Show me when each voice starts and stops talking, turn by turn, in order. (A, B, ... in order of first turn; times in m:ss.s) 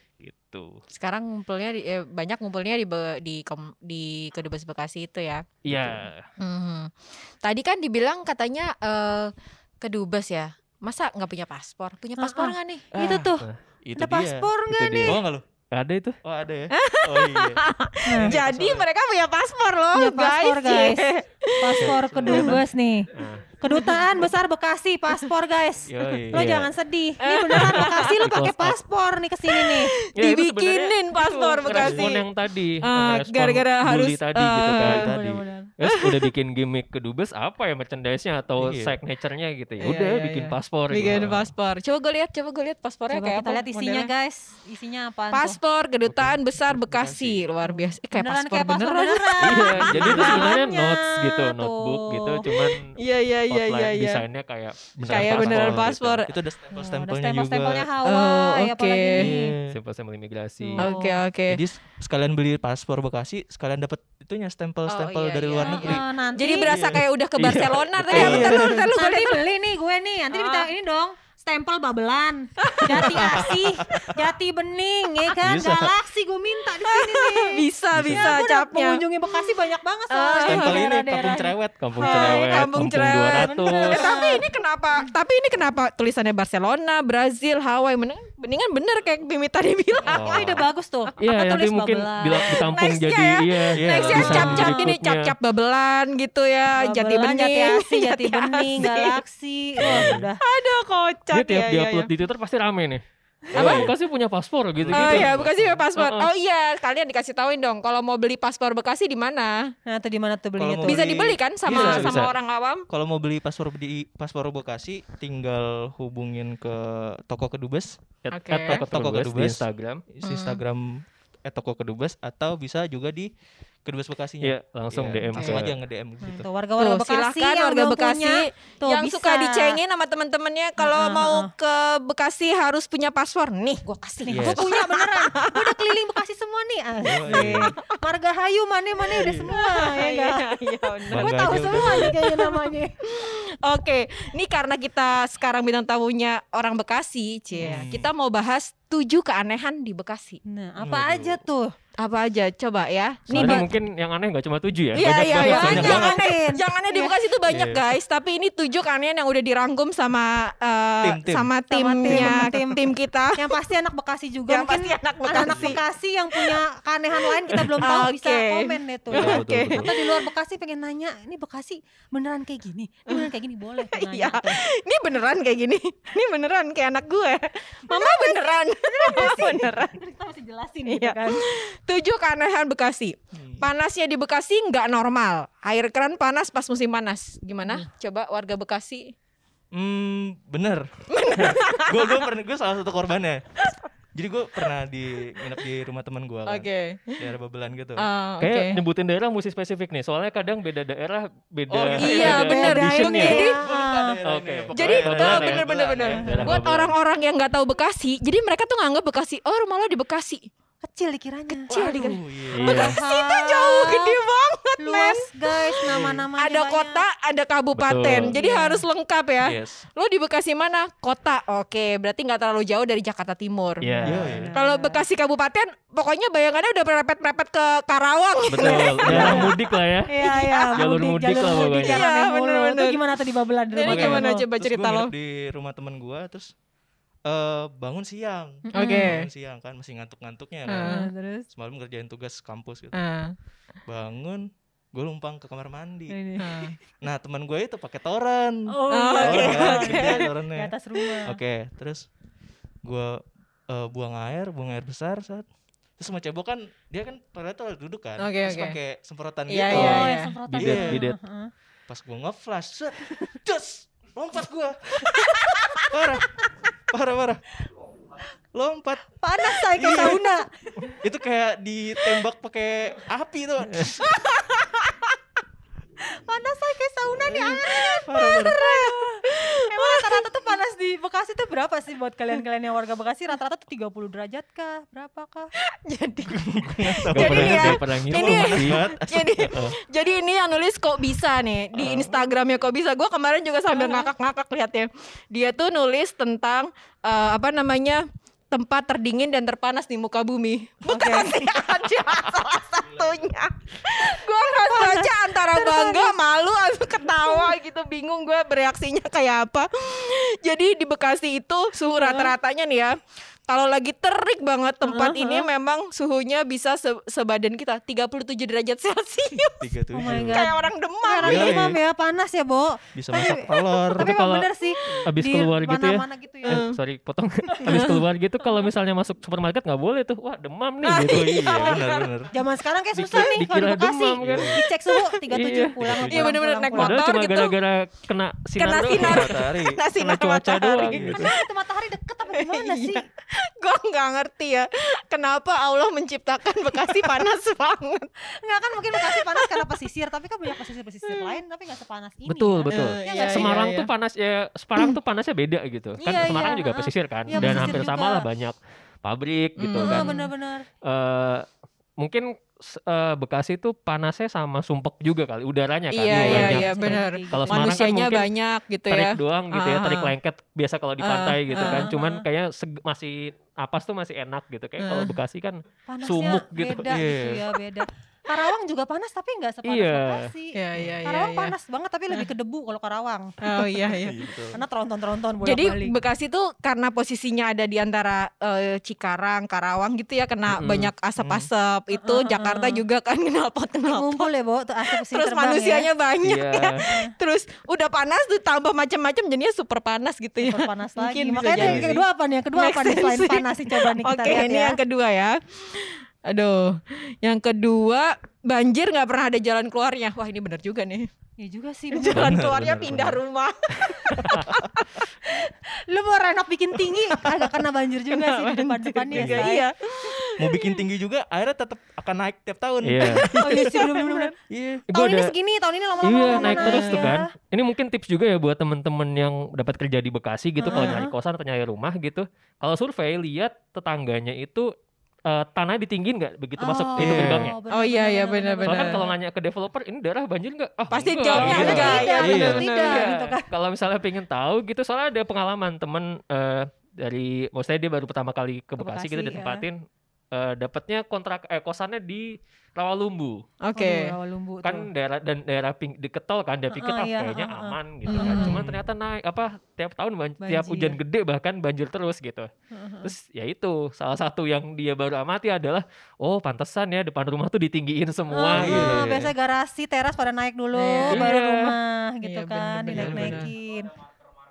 0:00.2-0:00.8 A
0:00.9-0:05.4 B
0:05.6-0:06.2 A
0:05.7-0:06.0 C
0:06.4-0:13.0 B
0:12.2-0:15.2 D
0:12.9-0:13.3 C
0:13.8-0:14.5 C
0:14.7-0:15.2 A
0:15.0-0:15.4 C
0:15.7-0:16.2 A
0:16.2-0:17.6 C
0:16.7-0:22.6 B
0:18.0-0:18.4 D
0:18.2-0:18.8 C
0:19.9-0:21.0 D
0:21.6-0:23.1 D
0:21.8-0:22.6 C
0:22.2-0:22.5 A
0:23.1-0:23.4 A
0:23.6-0:29.9 D
0:23.7-0:24.0 B
0:25.8-0:26.5 C
0:26.3-0:26.7 A
0:27.2-0:28.2 B
0:28.2-0:28.8 A
0:29.5-0:32.3 B
0:30.1-0:41.4 A
0:31.7-0:32.1 C
0:32.8-0:35.1 B
0:35.0-0:35.7 D
0:35.8-0:36.3 B
0:38.6-0:39.0 C
0:39.8-0:44.1 B
0:41.0-0:41.4 C
0:43.1-0:45.6 D
0:45.3-0:50.5 B
0:46.1-0:47.4 C
0:47.6-0:52.4 D
0:49.4-0:52.9 A
0:49.8-0:50.3 C
0:52.5-0:54.2 B
0:53.5-0:56.3 A
0:55.0-0:57.9 C
0:55.0-0:56.3 B
0:56.7-0:59.5 D
0:58.0-0:59.3 B
0:59.2-0:59.8 C
0:59.7-1:00.9 A
1:00.6-1:01.2 D
1:00.8-1:01.6 B
1:01.5-1:06.0 C
1:04.9-1:09.4 B
1:05.6-1:06.8 D
1:06.6-1:07.0 C
1:07.4-1:08.4 A
1:08.0-1:08.8 C
1:08.1-1:22.6 D
1:10.3-1:10.7 B
1:12.6-1:13.5 B
1:12.9-1:14.2 C
1:15.4-1:16.0 C
1:16.8-1:19.6 B
1:17.9-1:18.4 C
1:20.1-1:21.0 B
1:20.4-1:22.1 C
1:21.8-1:24.1 A
1:22.0-1:30.5 B
1:23.4-1:25.1 D
1:30.1-1:30.6 A
1:30.1-1:32.7 D
1:31.2-1:35.3 A
1:32.5-1:39.2 B
1:33.7-1:34.7 C
1:34.3-1:34.8 D
1:36.8-1:40.4 D
1:39.8-1:40.2 A
1:39.8-1:40.2 C
1:40.4-1:42.1 B
1:41.3-1:45.4 A
1:43.5-1:43.9 C
1:43.5-1:43.9 B
1:44.8-1:45.8 C
1:44.9-1:49.7 B
1:45.9-1:46.3 A
1:49.8-1:51.0 D
1:50.6-1:52.3 C
1:50.8-1:52.8 B
1:51.6-1:52.3 A
1:52.9-1:58.0 C
1:58.2-2:00.0 A
1:58.3-1:58.8 B
1:58.7-2:03.3 C
2:00.2-2:00.6 B
2:03.8-2:06.4 C
2:04.4-2:05.7 A
2:06.2-2:09.8 D
2:06.8-2:15.7 B
2:10.8-2:11.5 D
2:14.2-2:20.4 D
2:14.3-2:14.7 C
2:17.0-2:17.7 C
2:17.3-2:18.0 B
2:19.2-2:19.5 C
2:19.5-2:30.4 B
2:21.0-2:23.0 D
2:21.1-2:22.1 C
2:27.5-2:27.8 D
2:27.6-2:28.1 C
2:30.5-2:31.7 D
2:30.8-2:31.4 C
2:32.0-2:33.6 B
2:33.3-2:36.0 A
2:33.3-2:33.6 D
2:34.9-2:43.5 B
2:35.4-2:37.2 D
2:35.5-2:36.2 C
2:37.5-2:37.8 C
2:41.0-2:41.5 C
2:41.7-2:42.8 D
2:42.0-2:42.5 C
2:43.4-2:54.6 D
2:44.5-2:45.8 B
2:45.3-2:45.8 C
2:47.2-2:50.2 B
2:49.1-2:49.8 C
2:53.1-3:00.0 B
2:57.9-3:01.5 D
3:00.8-3:09.1 B
3:03.3-3:03.6 C
3:09.7-3:13.4 C
3:11.1-3:12.2 B
3:14.1-3:18.0 C
3:16.4-3:17.3 B
3:18.0-3:18.8 B
3:18.4-3:23.4 A
3:21.7-3:22.5 C
3:22.0-3:23.6 B
3:22.0-3:24.1 D
3:23.4-3:26.6 C
3:24.2-3:26.9 A
3:24.7-3:30.5 B
3:30.8-3:31.9 D
3:31.5-3:43.8 B
3:31.7-3:32.8 C
3:32.6-3:32.9 A
3:32.6-3:34.2 D
3:34.8-3:37.0 D
3:35.9-3:36.2 C
3:37.8-3:38.3 A
3:38.3-3:38.8 D
3:39.4-3:39.8 C
3:43.8-3:44.5 A
3:43.9-3:45.0 D
3:44.0-3:44.5 C
3:44.5-3:49.5 B
3:48.5-3:50.1 A
3:48.6-3:49.5 D
3:49.1-3:49.5 C
3:50.1-3:54.4 D
3:50.2-3:50.8 B
3:50.8-3:52.0 A
3:51.8-3:53.0 B
3:53.7-3:55.1 B
3:53.8-3:56.5 C
3:57.2-4:01.0 C
3:58.7-3:59.2 D
3:58.7-3:59.3 B
4:00.7-4:01.1 B
4:00.7-4:01.4 D
4:01.5-4:03.0 C
4:02.9-4:03.3 B
4:03.9-4:06.2 C
4:06.1-4:06.8 D
4:06.4-4:06.8 B
4:07.0-4:08.7 C
4:08.7-4:11.4 D
4:08.9-4:10.3 B
4:09.2-4:12.1 C
4:12.8-4:15.4 C
4:16.0-4:21.0 C
4:18.2-4:18.8 B
4:19.5-4:20.4 B
4:19.7-4:21.5 D
4:20.5-4:21.2 A
4:21.9-4:27.4 C
4:25.1-4:26.0 B
4:28.5-4:29.1 C
4:29.2-4:30.5 D
4:29.7-4:30.3 C
4:31.0-4:34.1 C
4:34.0-4:35.1 B
4:36.2-4:39.1 D
4:37.2-4:38.6 C
4:37.7-4:40.5 B
4:39.7-4:45.5 D
4:45.8-5:21.6 B
4:46.3-4:49.5 C
4:47.1-4:48.8 A
4:49.4-4:49.8 A
4:51.8-4:52.1 A
4:53.7-4:54.1 D
5:00.9-5:01.4 D
5:04.7-5:06.2 D
5:07.2-5:07.5 D
5:12.0-5:12.3 D
5:14.8-5:15.5 D
5:19.6-5:20.5 C
5:19.9-5:26.6 D
5:21.2-5:21.8 C
5:22.9-5:24.1 C
5:24.0-5:24.5 A
5:25.0-5:31.6 A
5:26.4-5:26.8 B
5:27.6-5:28.0 B
5:30.8-5:32.1 B
5:31.0-5:32.3 C
5:32.3-5:37.0 D
5:32.9-5:34.6 A
5:34.2-5:34.6 C
5:35.3-5:36.0 A
5:35.8-5:36.3 C
5:36.1-5:37.5 B
5:36.7-5:39.4 A
5:38.6-5:41.4 B
5:38.9-5:39.8 C
5:40.0-5:41.3 A
5:40.8-5:41.2 C
5:41.2-5:43.0 D
5:42.3-5:48.1 B
5:48.4-5:53.5 D
5:48.9-5:49.6 B
5:51.1-5:51.4 B
5:52.2-6:00.1 A
5:52.7-5:53.9 B
5:56.0-5:58.2 D
5:57.4-5:57.8 C
5:59.6-6:00.3 B
5:59.8-6:00.6 D
6:00.8-6:01.5 A
6:02.0-6:08.3 A
6:05.9-6:10.1 B
6:06.1-6:07.8 D
6:08.9-6:16.9 A
6:11.0-6:11.9 B
6:11.6-6:12.2 D
6:14.8-6:15.2 B
6:15.9-6:23.9 D
6:16.8-6:17.4 C
6:19.6-6:20.3 A
6:20.5-6:21.5 B
6:20.7-6:21.0 C
6:23.4-6:24.2 B
6:23.9-6:24.6 C
6:24.5-6:26.0 D
6:25.4-6:34.3 B
6:30.5-6:30.9 A
6:31.2-6:31.5 C
6:31.9-6:32.8 D
6:33.9-6:35.9 D
6:34.9-6:42.0 B
6:36.2-6:36.8 A
6:36.8-6:37.1 D
6:40.4-6:44.8 D
6:41.6-6:41.9 C
6:42.5-6:51.1 B
6:51.4-6:52.3 D
6:51.9-6:55.4 B
6:52.1-6:53.2 C
6:54.1-6:54.4 C
6:55.3-6:59.6 D
6:56.8-6:57.6 B
6:58.1-7:00.8 B
6:59.1-6:59.4 C
7:00.4-7:03.8 C
7:02.8-7:03.2 A
7:03.1-7:04.3 B
7:03.4-7:04.3 D
7:04.5-7:04.8 C
7:04.9-7:05.3 A
7:04.9-7:07.2 D
7:06.0-7:14.7 A
7:06.3-7:07.0 B
7:10.6-7:11.0 B
7:10.7-7:11.1 D
7:15.3-7:17.5 A
7:16.6-7:19.1 D
7:17.0-7:17.5 C
7:17.7-7:19.0 B
7:18.6-7:33.4 A
7:20.9-7:23.0 B
7:21.3-7:23.5 D
7:21.3-7:22.6 C
7:28.8-7:29.6 D
7:33.6-7:34.1 B
7:33.7-7:34.9 D
7:34.6-7:42.5 A
7:36.7-7:38.6 D
7:38.1-7:38.6 B
7:38.4-7:38.8 C
7:40.4-7:41.0 D
7:42.7-7:43.1 D
7:43.0-7:49.1 A
7:48.3-7:53.9 D
7:48.5-7:49.3 C
7:50.7-7:51.2 B
7:51.1-7:51.8 A
7:52.2-7:53.5 B
7:52.9-7:53.5 C